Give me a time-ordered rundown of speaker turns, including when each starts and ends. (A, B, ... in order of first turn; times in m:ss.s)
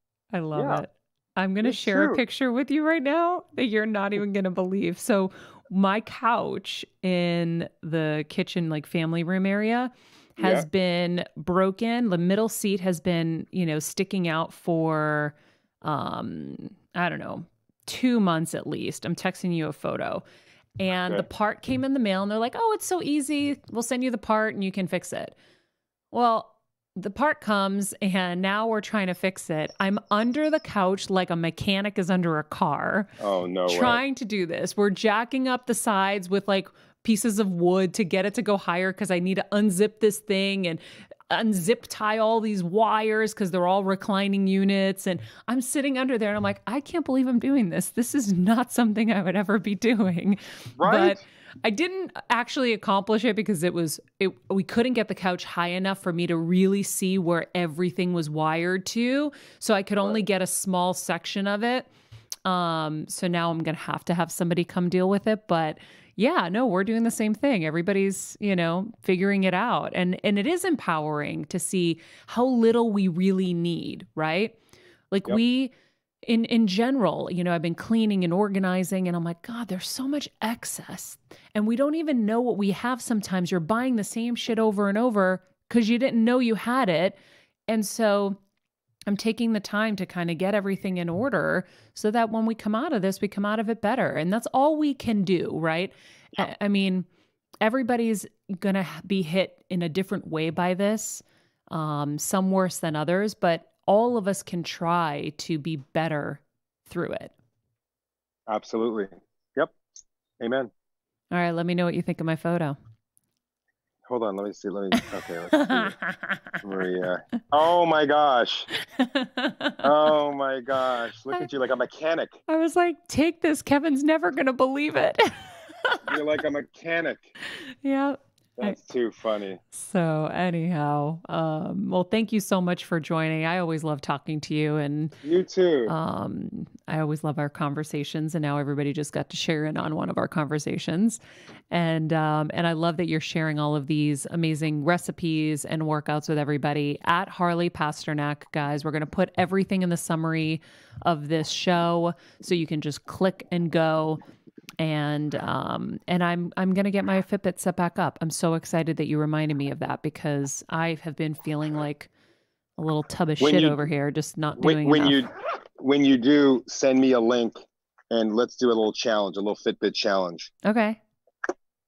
0:00.3-0:20.2 A
0:00.5-0:00.8 B
0:01.6-0:02.2 B
0:10.4-0:10.7 B
0:20.8-0:25.4 A
0:26.1-0:33.1 A
0:33.2-0:34.0 B
0:33.7-1:01.9 A
0:50.8-0:51.2 B
1:02.4-1:14.6 A
1:15.1-1:15.7 A
1:16.2-1:28.4 A
1:29.1-1:37.1 A
1:37.6-1:47.3 A
1:48.5-1:49.7 B
1:50.4-1:50.7 B
1:51.3-1:52.8 A
1:54.1-1:55.9 B
1:55.0-1:56.6 A
1:56.6-1:58.7 B
1:59.0-1:59.9 A
1:59.8-2:02.4 B
2:02.5-2:06.1 A
2:06.1-2:07.3 B
2:07.5-2:08.8 A
2:08.6-2:09.6 B
2:09.7-2:15.2 A
2:15.2-2:15.9 B
2:15.9-2:21.2 A
2:21.7-2:34.2 A
2:34.8-2:42.1 A
2:42.8-2:45.3 A
2:43.4-2:43.9 B
2:44.6-2:50.5 B
2:50.6-2:51.0 A